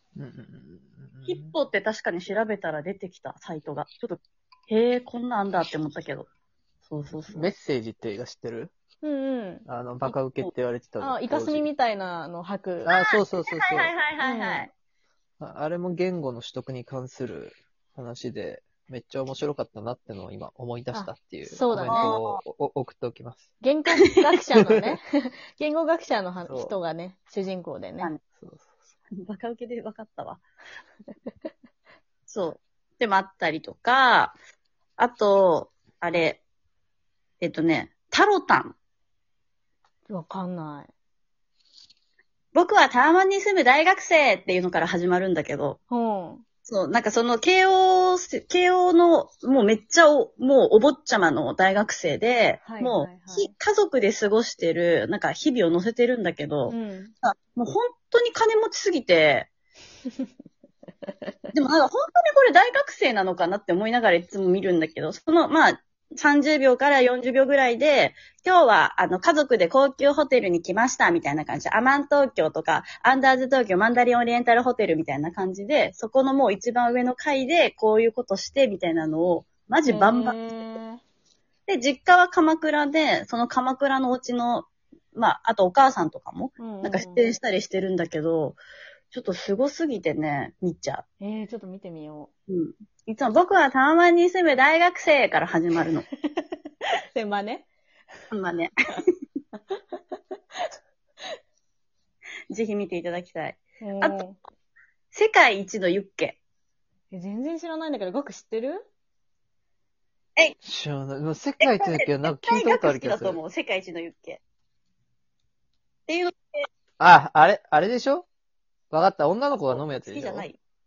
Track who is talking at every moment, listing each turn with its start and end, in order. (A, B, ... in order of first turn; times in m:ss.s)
0:00.2-0:01.6 A
0:01.2-0:06.3 B
0:06.8-0:07.5 B
0:07.3-0:08.7 A
0:09.0-0:10.2 C
0:09.7-0:11.7 A
0:11.0-0:12.9 C
0:12.8-0:14.0 A
0:13.0-0:14.7 B
0:14.2-0:14.7 C
0:15.4-0:23.5 A
0:20.9-0:22.1 C
0:21.8-0:22.4 B
0:23.6-0:28.1 C
0:24.6-0:25.0 A
0:26.4-0:26.7 A
0:28.4-0:28.8 A
0:29.2-0:30.4 B
0:32.3-0:34.4 B
0:35.0-0:36.4 B
0:37.4-0:38.8 B
0:40.1-0:40.9 C
0:42.5-0:45.8 B
0:45.9-0:46.4 C
0:46.6-0:59.5 B
0:52.6-0:53.5 C
0:56.7-0:57.1 C
1:01.5-1:20.6 B
1:19.9-1:21.0 C
1:21.7-1:28.6 B
1:26.6-1:27.3 C
1:29.1-1:31.0 B
1:31.2-1:32.3 C
1:32.5-1:36.0 B
1:37.1-1:37.7 C
1:38.3-1:38.7 B
1:42.5-1:44.2 B
1:43.8-1:44.4 C
1:45.1-1:46.4 B
1:47.1-1:48.8 C
1:50.6-1:53.4 A
1:51.6-1:54.4 B
1:56.1-1:56.7 B
1:57.0-1:58.2 A
1:58.9-2:00.5 A
1:59.7-2:00.6 B